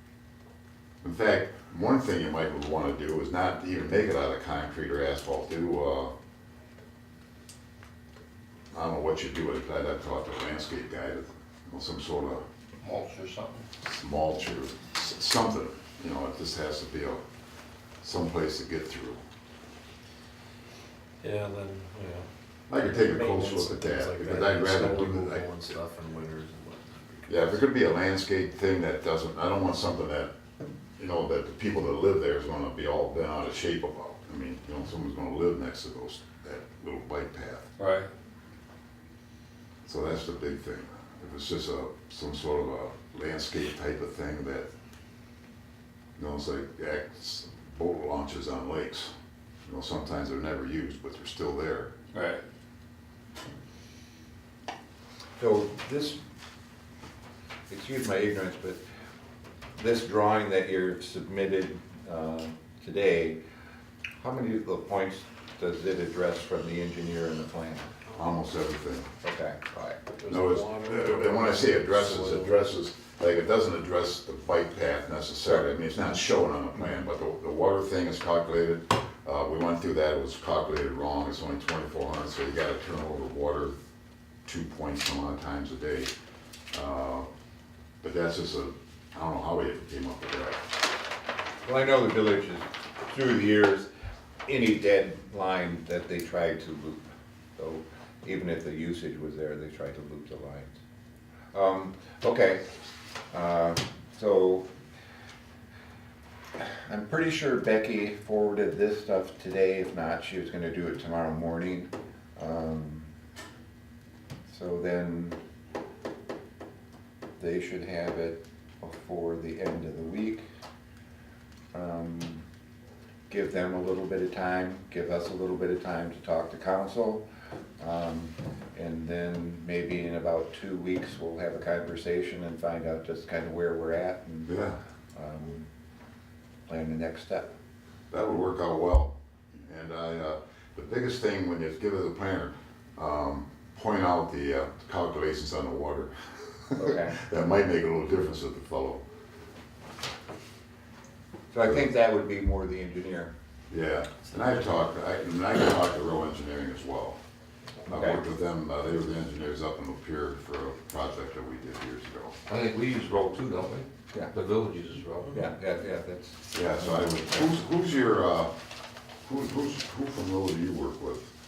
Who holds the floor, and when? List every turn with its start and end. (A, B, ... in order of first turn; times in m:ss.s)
0:01.0-0:06.1 A
0:08.7-0:12.4 A
0:12.8-0:13.7 B
0:13.8-0:17.2 A
0:18.0-0:19.2 A
0:21.2-0:22.3 C
0:22.7-0:25.5 A
0:22.9-0:27.6 C
0:27.3-0:30.3 A
0:31.0-0:37.7 A
0:37.8-0:38.1 B
0:39.9-0:44.7 A
0:46.2-0:49.1 A
0:49.7-0:51.9 A
0:55.4-0:56.2 D
0:57.7-0:58.8 D
0:59.8-1:03.4 D
1:04.2-1:07.9 D
1:08.2-1:09.1 A
1:09.2-1:10.0 D
1:10.1-1:12.6 C
1:10.3-1:23.7 A
1:24.5-1:26.1 A
1:26.7-1:27.3 A
1:28.0-1:30.7 A
1:31.6-1:33.9 D
1:34.5-1:37.0 D
1:37.6-1:40.8 D
1:41.5-1:42.7 D
1:43.3-1:44.7 D
1:46.6-1:53.1 D
1:54.5-1:55.4 D
1:57.4-2:00.5 D
2:01.7-2:02.4 D
2:03.3-2:07.2 D
2:07.8-2:14.6 D
2:14.4-2:14.8 A
2:15.2-2:15.7 D
2:16.7-2:17.5 D
2:18.1-2:29.0 A
2:26.8-2:27.2 D
2:31.5-2:33.3 D
2:33.7-2:37.2 A
2:37.9-2:38.2 D
2:37.9-2:42.4 A
2:42.5-2:45.4 B
2:45.3-2:47.2 D
2:46.5-2:48.5 A
2:49.2-2:51.3 A